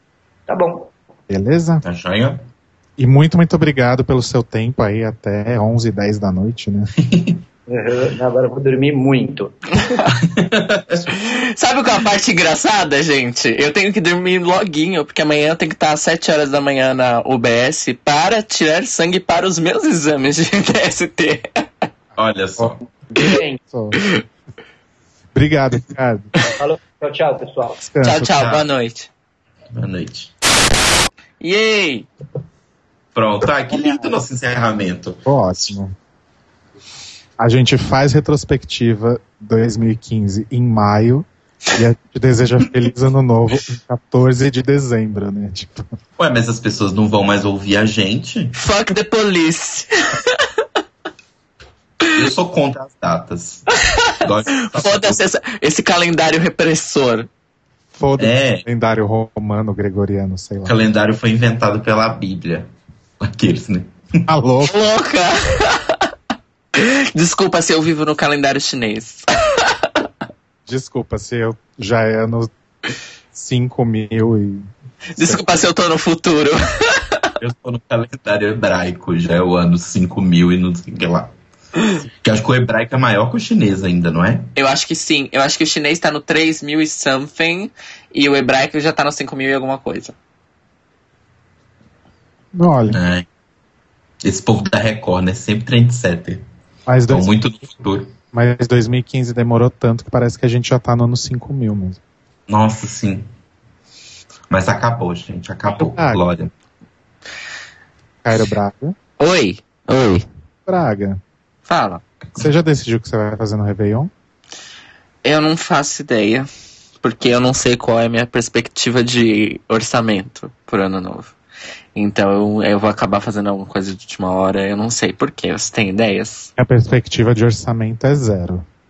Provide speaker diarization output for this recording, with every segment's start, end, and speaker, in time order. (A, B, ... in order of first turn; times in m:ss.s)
0:00.5-0:00.9 A
0:01.3-0:01.8 B
0:01.8-0:02.4 C
0:03.0-0:06.9 B
0:07.1-0:07.4 C
0:07.7-0:10.0 A
0:10.5-0:11.0 C
0:11.0-0:21.5 D
0:22.2-0:22.8 C
0:23.1-0:23.6 A
0:23.7-0:24.0 B
0:25.3-0:26.3 B
0:26.6-0:27.8 A
0:27.8-0:28.2 B
0:28.0-0:29.1 D
0:28.1-0:28.7 C
0:29.7-0:30.3 C
0:31.4-0:32.1 D
0:33.1-0:35.2 C
0:35.3-0:35.9 B
0:37.4-0:45.9 B
0:46.2-0:48.5 C
0:48.6-0:50.2 D
0:52.2-0:53.7 C
0:54.2-0:55.2 C
0:54.6-0:57.3 D
0:57.9-1:00.8 B
0:58.2-0:58.6 C
1:00.7-1:02.7 C
1:03.2-1:03.9 C
1:04.3-1:04.8 B
1:04.6-1:06.0 D
1:06.8-1:09.2 D
1:10.7-1:12.5 B
1:13.3-1:15.4 B
1:15.1-1:17.2 D
1:17.4-1:21.3 C
1:22.2-1:24.5 C
1:24.6-1:30.2 D
1:32.5-1:33.0 B
1:32.9-1:33.3 C
1:34.2-1:36.4 C
1:36.9-1:37.3 B
1:37.1-1:38.1 C
1:38.3-1:42.0 B
1:42.5-1:43.3 C
1:44.5-1:46.5 C
1:45.8-1:46.2 B
1:48.2-1:49.0 B
1:49.2-1:50.3 D
1:50.7-1:51.2 B
1:51.7-1:52.0 D
1:52.4-1:54.1 B
1:55.2-1:56.5 D
1:57.0-2:01.4 D
2:02.0-2:06.5 D
2:06.6-2:08.6 B